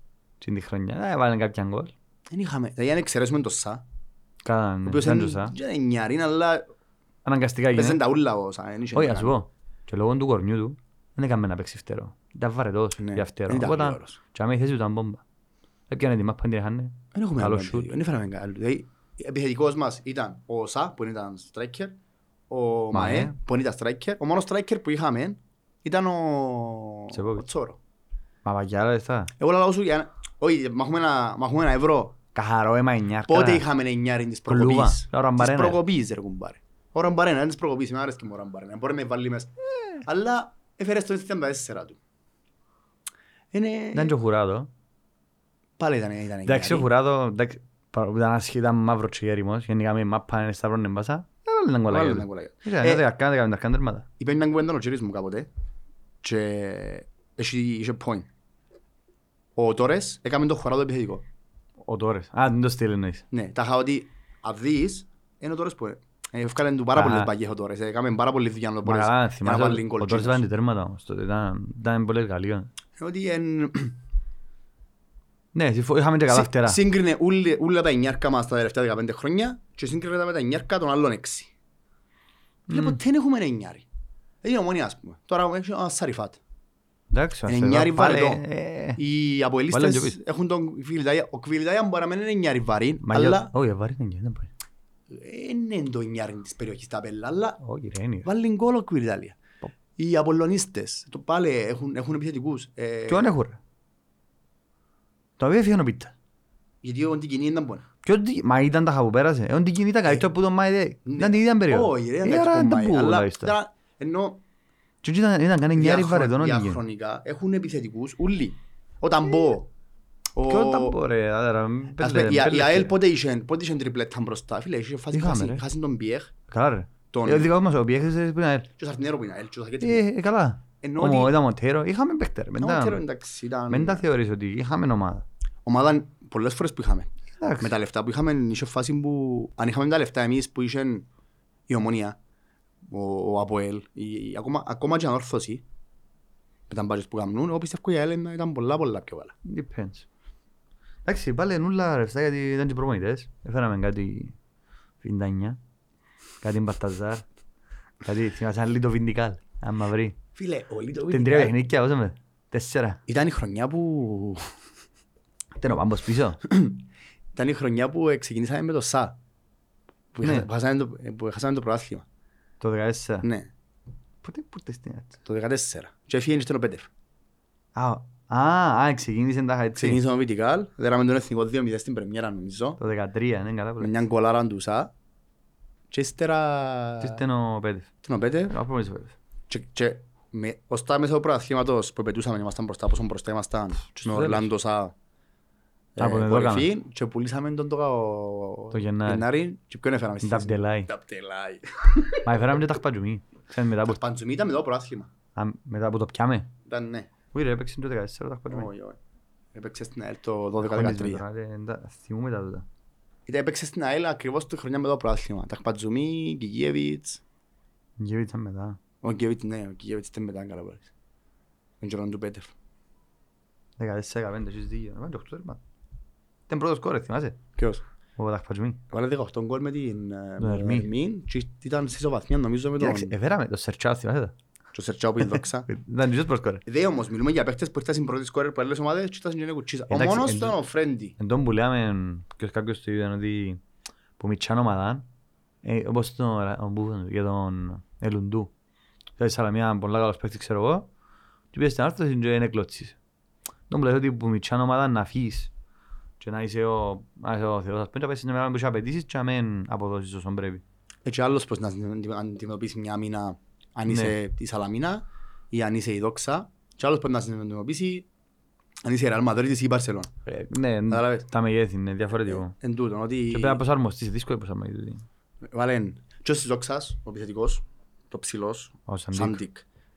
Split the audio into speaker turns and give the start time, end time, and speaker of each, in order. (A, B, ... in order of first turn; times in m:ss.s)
0:00.4-0:01.9 A
0:02.3-0:03.8 B
0:04.4-0:05.6 A
0:04.9-0:06.6 B
0:07.2-0:08.0 A
0:07.7-0:09.4 B
0:08.9-0:15.2 A
0:13.0-0:14.2 B
0:15.9-0:18.0 A
0:17.1-0:22.0 B
0:22.5-0:27.8 B
0:22.9-0:23.4 A
0:27.1-0:27.5 A
0:28.4-0:29.3 A
0:29.4-0:32.2 B
0:32.4-0:33.6 A
0:33.3-0:42.0 B
0:34.5-0:35.8 A
0:43.5-0:44.1 B
0:43.9-0:44.7 A
0:45.8-0:46.9 B
0:46.4-0:54.1 A
0:51.9-0:53.0 B
0:54.2-0:55.5 B
0:56.2-0:58.3 B
0:59.6-1:01.2 B
1:01.8-1:03.3 A
1:03.3-1:10.4 B
1:07.0-1:07.3 A
1:08.8-1:12.7 A
1:13.0-1:14.0 B
1:15.5-1:16.8 A
1:16.3-1:21.5 B
1:22.7-1:23.0 A
1:22.7-1:23.9 B
1:24.4-1:26.4 B
1:27.1-1:29.0 A
1:27.5-1:28.4 B
1:29.0-1:33.5 B
1:29.7-1:30.2 A
1:33.0-1:34.5 A
1:35.1-1:37.6 B
1:37.6-1:38.3 A
1:38.2-1:39.4 B
1:40.0-1:43.3 B
1:43.1-1:43.6 A
1:45.4-1:46.1 A
1:46.8-1:47.9 B
1:48.0-1:53.6 A
1:51.0-1:54.4 B
1:55.0-1:56.8 A
1:55.8-1:59.7 B
2:00.4-2:01.0 B
2:00.5-2:03.0 A
2:02.0-2:06.3 B
2:05.1-2:05.6 A
2:06.5-2:08.7 A
2:07.1-2:07.5 B
2:08.8-2:10.0 B
2:09.8-2:13.0 A
2:10.8-2:11.4 B
2:12.6-2:14.0 B
2:13.7-2:15.3 A
2:15.7-2:21.1 B
2:17.4-2:17.8 A
2:21.7-2:22.2 B
2:22.9-2:25.6 B
2:26.7-2:29.4 B
2:29.4-2:30.1 A
2:31.0-2:34.4 A
2:35.0-2:35.6 A
2:36.4-2:37.2 A
2:38.0-2:40.2 A
2:40.4-2:41.6 B
2:41.1-2:43.0 A
2:43.1-2:44.5 B
2:45.6-2:46.4 A
2:46.4-2:49.2 B
2:50.1-2:52.0 B
2:50.2-2:50.5 A
2:52.6-2:53.3 A
2:53.2-2:53.5 B
2:54.2-2:55.2 A
2:55.2-2:56.9 B
2:57.8-3:00.0 A
2:59.8-3:02.8 B
3:02.8-3:04.0 A
3:03.8-3:04.9 B
3:05.9-3:07.2 B
3:07.0-3:07.9 A
3:08.0-3:08.6 B
3:08.5-3:09.2 A
3:09.5-3:14.9 B
3:13.9-3:14.5 A
3:16.0-3:22.3 B
3:16.0-3:16.7 A
3:18.7-3:19.2 A
3:20.2-3:20.9 A
3:22.2-3:24.0 A
3:23.9-3:25.1 B
3:25.4-3:26.5 A
3:26.7-3:27.1 B
3:27.3-3:28.7 A
3:28.5-3:29.0 B
3:29.6-3:31.2 B
3:30.6-3:32.7 A
3:33.3-3:37.2 B
3:38.0-3:38.8 A
3:39.0-3:40.9 B
3:41.8-3:42.5 B
3:43.8-3:45.6 A
3:46.5-3:47.4 A
3:47.6-3:47.8 B
3:48.2-3:48.8 A
3:48.9-3:53.2 B
3:50.4-3:50.9 A
3:52.8-3:54.4 A
3:54.7-3:55.7 B
3:55.2-3:56.6 A
3:56.7-4:01.2 B
3:59.9-4:00.6 A
4:01.2-4:03.6 A
4:04.2-4:05.1 A
4:05.6-4:08.5 A
4:09.2-4:10.9 A
4:11.5-4:13.0 A
4:13.7-4:15.5 A
4:16.2-4:20.6 A
4:21.0-4:28.1 B
4:23.9-4:24.2 A
4:28.8-4:30.1 B
4:30.3-4:32.6 A
4:30.9-4:31.2 B
4:32.3-4:33.6 B
4:33.3-4:35.0 A
4:35.5-4:39.6 B
4:38.9-4:39.4 A